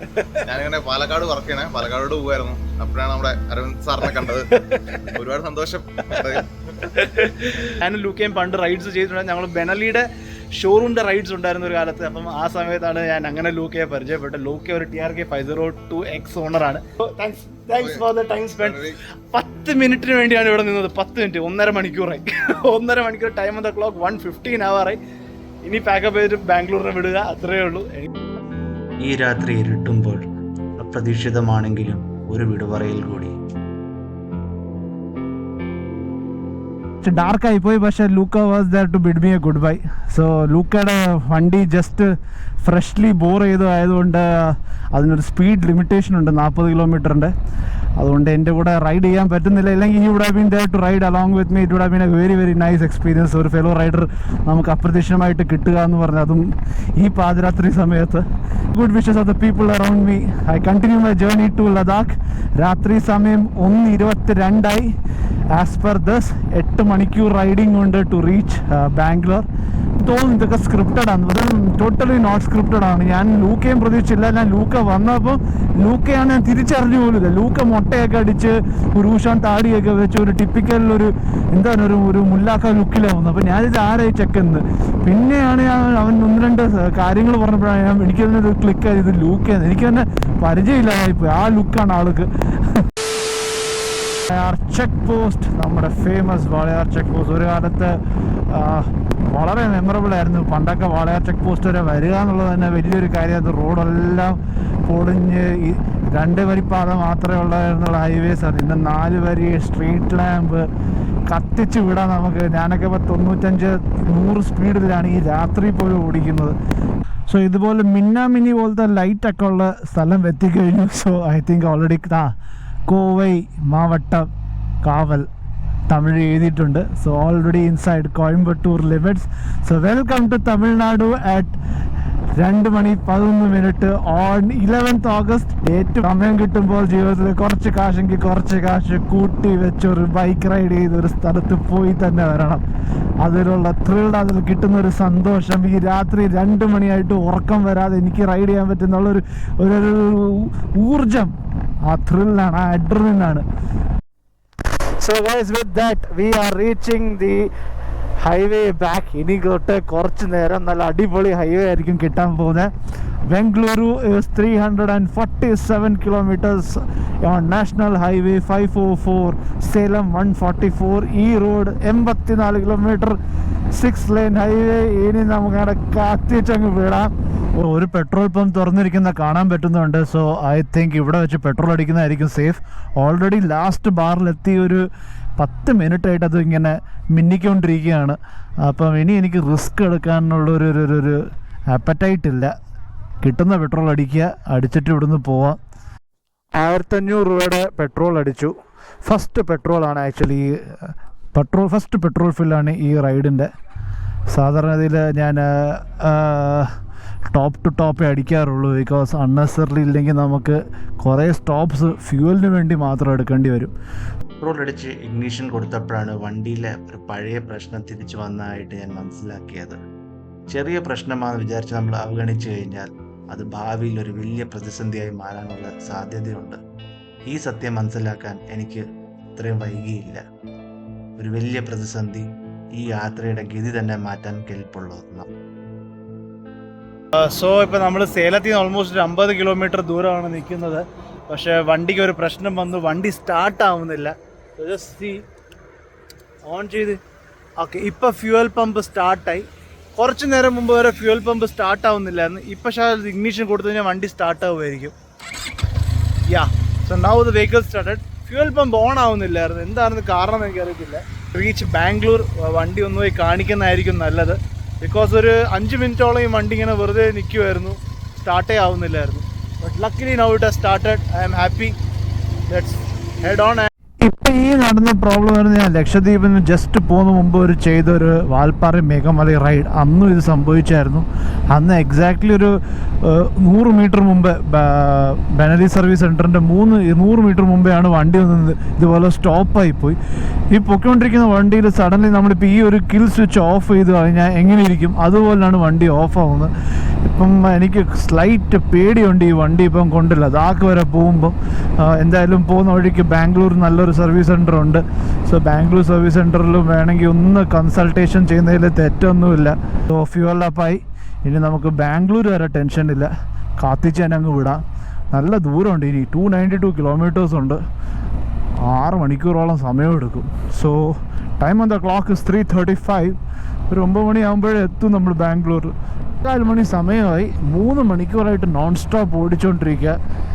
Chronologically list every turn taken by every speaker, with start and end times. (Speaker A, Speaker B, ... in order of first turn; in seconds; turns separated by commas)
Speaker A: 0.3-6.5, Speaker B: 7.0-7.9, Speaker C: 7.8-9.9, Speaker B: 9.6-10.0, Speaker B: 10.6-12.4, Speaker C: 11.2-18.7, Speaker B: 14.0-14.6, Speaker B: 16.9-17.6, Speaker A: 18.6-19.0, Speaker C: 19.3-24.9, Speaker B: 22.3-22.9, Speaker C: 25.6-28.0, Speaker B: 29.0-30.2, Speaker B: 30.8-33.3, Speaker D: 37.0-42.1, Speaker D: 42.6-47.3, Speaker D: 48.0-64.9, Speaker D: 65.5-92.8, Speaker D: 94.3-110.7, Speaker D: 111.3-116.5, Speaker D: 117.3-122.3, Speaker D: 122.9-124.3, Speaker D: 124.8-125.3, Speaker D: 125.9-131.6, Speaker D: 132.4-142.6, Speaker D: 143.2-151.3, Speaker D: 151.9-153.4, Speaker D: 155.0-157.5, Speaker D: 158.2-162.7, Speaker D: 163.3-173.2, Speaker D: 173.7-184.8, Speaker D: 185.4-191.2, Speaker D: 191.7-192.5, Speaker D: 193.2-195.6, Speaker D: 196.6-203.5, Speaker D: 204.3-206.7, Speaker D: 207.3-213.7, Speaker B: 214.4-219.8, Speaker B: 220.5-226.6, Speaker B: 227.3-228.8, Speaker B: 229.3-230.2, Speaker B: 231.2-232.2, Speaker B: 232.8-235.3, Speaker C: 237.2-245.1, Speaker C: 246.5-247.0, Speaker C: 247.6-249.4, Speaker C: 250.0-254.9, Speaker B: 250.8-251.5, Speaker B: 252.7-253.6, Speaker C: 256.3-261.0, Speaker B: 261.3-262.3, Speaker C: 261.6-271.7, Speaker C: 272.5-273.7, Speaker D: 274.0-290.0, Speaker D: 290.5-296.5, Speaker D: 297.0-314.6, Speaker D: 315.1-317.6, Speaker D: 318.6-323.1, Speaker D: 323.7-330.0